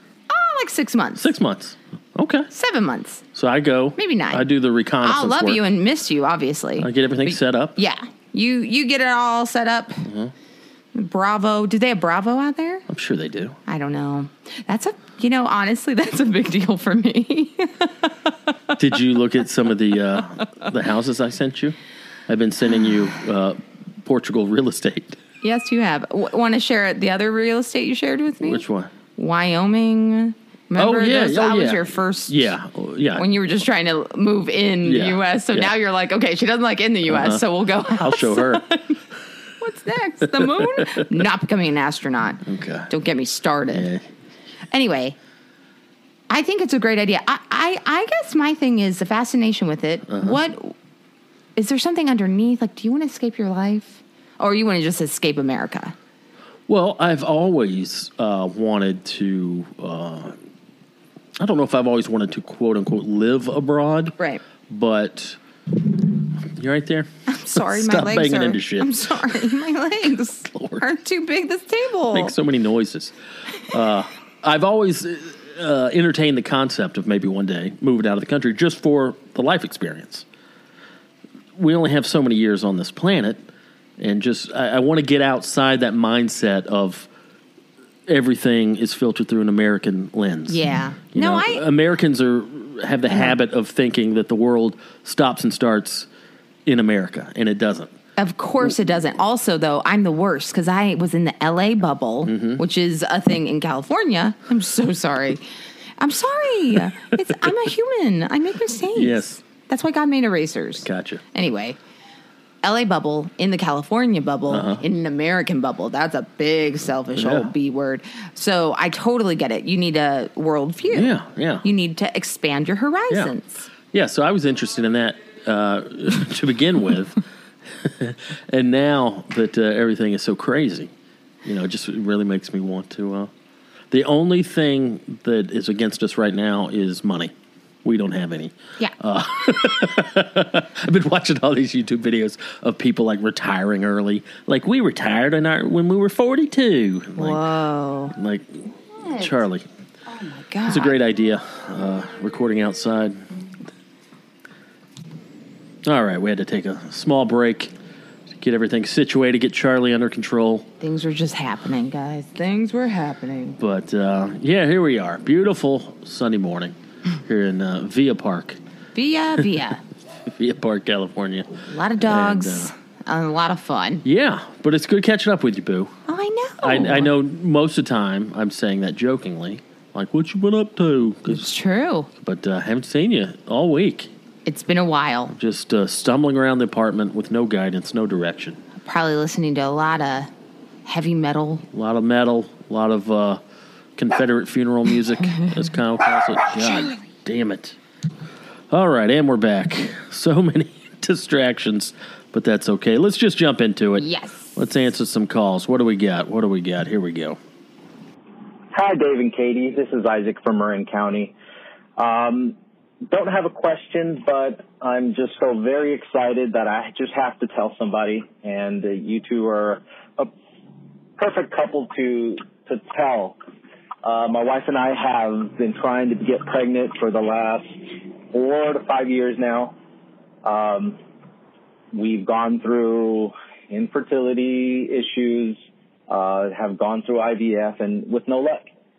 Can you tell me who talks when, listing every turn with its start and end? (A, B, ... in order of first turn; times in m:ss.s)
0:00.3-0:01.3 A
0:01.1-0:02.5 B
0:02.5-0:03.2 A
0:03.3-0:05.6 B
0:04.0-0:04.4 A
0:05.0-0:10.0 A
0:06.8-0:07.7 B
0:10.0-0:10.3 B
0:10.9-0:12.8 A
0:12.9-0:13.6 B
0:13.7-0:18.3 A
0:18.8-0:21.8 B
0:22.3-0:25.2 B
0:25.4-0:28.6 A
0:28.4-0:28.9 B
0:29.2-0:32.5 A
0:30.7-0:33.2 B
0:33.1-0:39.0 A
0:34.8-0:35.7 B
0:37.1-0:38.6 B
0:39.6-0:43.9 A
0:40.2-0:41.0 B
0:42.4-0:42.9 B
0:43.7-0:44.0 B
0:44.7-0:45.2 A
0:46.3-0:50.7 A
0:50.1-0:50.4 B
0:51.6-0:55.9 A
0:56.7-1:00.4 B
1:01.4-1:04.1 B
1:04.7-1:05.4 B
1:06.4-1:09.0 B
1:07.3-1:12.3 A
1:10.5-1:10.8 B
1:12.1-1:13.1 B
1:13.7-1:20.2 B
1:21.6-1:23.4 B
1:24.0-1:27.1 B
1:28.1-1:30.6 B
1:30.5-1:31.6 A
1:31.1-1:36.1 B
1:36.6-1:37.9 B
1:38.2-1:45.4 A
1:42.2-1:42.6 B
1:46.0-1:51.8 A
1:48.9-1:49.4 B
1:50.8-1:51.2 B
1:52.6-2:01.1 A
1:54.5-1:54.8 B
1:57.1-1:57.5 B
2:00.9-2:01.6 B
2:01.6-2:03.7 A
2:03.9-2:07.2 B
2:07.7-2:10.9 B
2:11.4-2:13.3 B
2:13.9-2:17.3 B
2:17.8-2:27.4 B
2:27.2-2:28.1 A
2:28.1-2:28.6 B
2:29.0-2:29.3 A
2:29.1-2:29.6 B
2:30.1-2:30.9 A
2:30.6-2:33.2 B
2:35.8-2:37.7 B
2:38.3-2:40.7 B
2:40.8-2:43.6 A
2:43.6-2:48.6 B
2:48.9-2:49.8 A
2:50.2-2:52.7 B
2:51.6-2:54.0 A
2:54.0-2:55.9 B
2:56.1-2:57.1 A
2:56.6-3:01.5 B
3:01.3-3:02.1 A
3:02.2-3:04.1 B
3:04.4-3:05.3 A
3:05.3-3:08.6 B
3:08.8-3:10.3 A
3:10.8-3:11.6 A
3:11.7-3:13.4 B
3:14.0-3:17.8 B
3:18.7-3:27.4 B
3:24.0-3:24.6 A
3:28.7-3:31.3 C
3:32.0-3:40.3 C
3:41.2-3:43.4 C
3:44.0-3:49.7 C
3:50.4-3:51.0 C
3:51.9-3:58.7 C